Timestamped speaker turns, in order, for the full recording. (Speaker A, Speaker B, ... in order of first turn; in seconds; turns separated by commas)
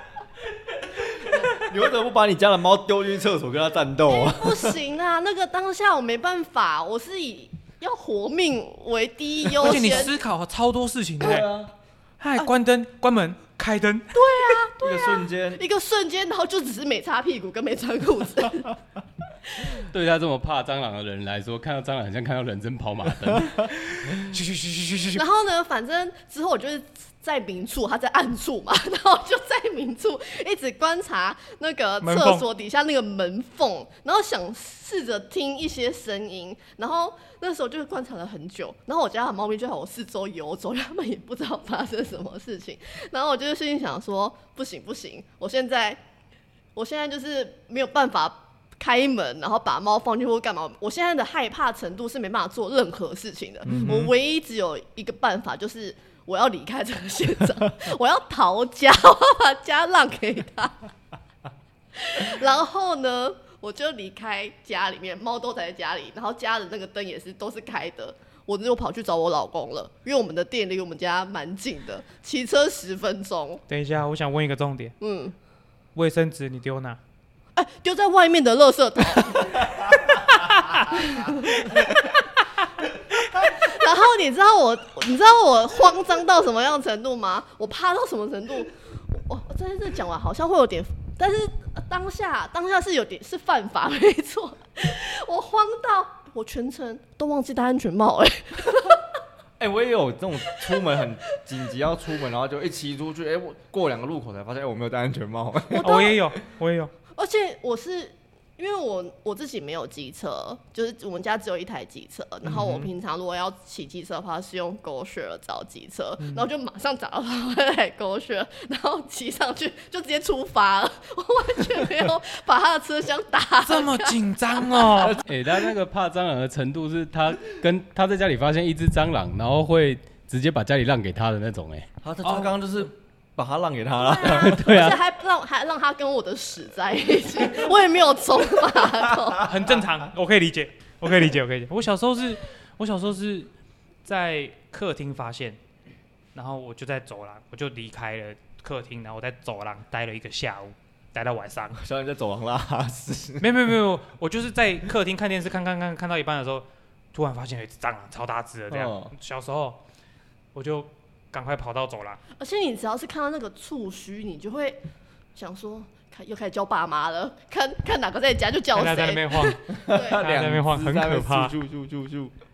Speaker A: 0.9-4.8, Speaker B: 4.1-10.1, Speaker C: 9.6-11.5, Speaker A: 9.6-10.0, Speaker A: 11.2-11.7, Speaker C: 12.2-14.5, Speaker B: 14.1-18.7, Speaker A: 14.8-15.6, Speaker B: 19.5-19.8, Speaker D: 19.8-23.7, Speaker C: 24.1-25.2, Speaker B: 25.1-46.0, Speaker C: 32.0-32.5, Speaker B: 46.7-60.8, Speaker A: 53.6-54.1, Speaker C: 53.7-54.1, Speaker B: 62.0-73.6, Speaker C: 73.7-74.9, Speaker B: 75.0-75.3, Speaker C: 75.9-77.0, Speaker B: 77.5-80.0, Speaker C: 80.3-80.9, Speaker B: 80.7-82.2, Speaker B: 83.2-99.0, Speaker A: 99.6-106.1, Speaker B: 105.7-106.2, Speaker C: 105.8-106.9, Speaker B: 107.1-124.6, Speaker A: 112.4-112.9, Speaker C: 116.2-116.4, Speaker C: 123.6-125.2, Speaker A: 125.0-125.2, Speaker D: 125.2-131.9, Speaker A: 132.0-134.7, Speaker C: 132.2-132.5, Speaker B: 134.0-139.5, Speaker D: 134.3-135.0, Speaker C: 139.4-143.5, Speaker C: 144.0-145.6, Speaker C: 146.3-151.8, Speaker A: 151.8-153.5, Speaker C: 153.4-159.8, Speaker A: 158.7-159.1, Speaker C: 160.5-162.2, Speaker B: 162.3-164.8, Speaker B: 165.3-170.2, Speaker C: 168.7-171.5, Speaker A: 169.7-172.3